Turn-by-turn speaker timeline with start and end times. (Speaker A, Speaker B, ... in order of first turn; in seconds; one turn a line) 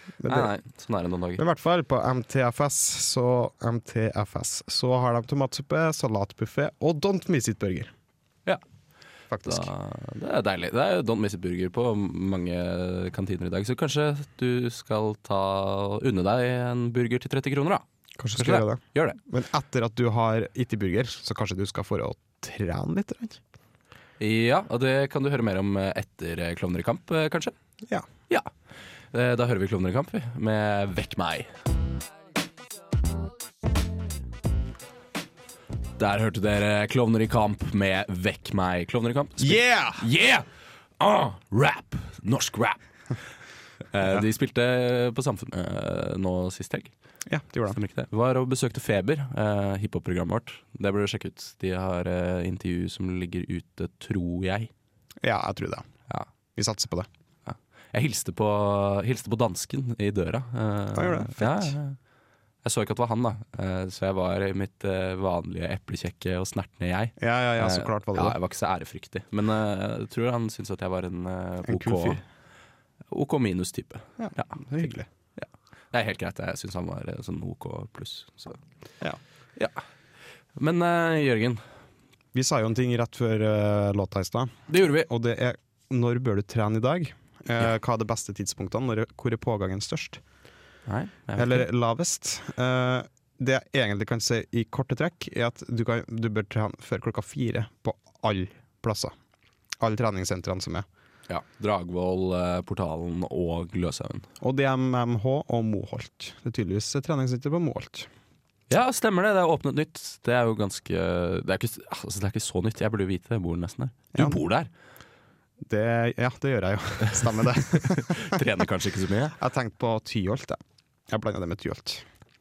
Speaker A: 0.2-0.5
Speaker B: 0.2-1.4
Speaker A: 1.4-7.9
Speaker A: 9.3-9.7
Speaker B: 9.4-19.2
Speaker A: 18.2-23.4
Speaker B: 24.2-27.5
Speaker B: 29.1-31.5
Speaker B: 36.0-40.5
Speaker A: 39.4-40.0
Speaker B: 41.0-42.8
Speaker B: 43.9-46.9
Speaker A: 47.3-47.8
Speaker B: 47.7-54.7
Speaker A: 55.2-55.9
Speaker A: 56.6-57.1
Speaker B: 57.5-62.0
Speaker A: 61.0-61.8
Speaker B: 62.6-72.2
Speaker A: 67.2-68.4
Speaker A: 71.7-72.2
Speaker B: 73.1-74.5
Speaker A: 74.2-75.1
Speaker B: 75.4-78.6
Speaker B: 80.6-81.6
Speaker A: 82.3-90.2
Speaker B: 84.7-85.1
Speaker B: 90.9-91.7
Speaker A: 91.4-99.1
Speaker A: 99.8-100.9
Speaker B: 101.3-104.3
Speaker A: 104.4-108.1
Speaker B: 108.7-114.7
Speaker A: 115.6-118.6
Speaker B: 117.0-119.4
Speaker A: 119.3-122.1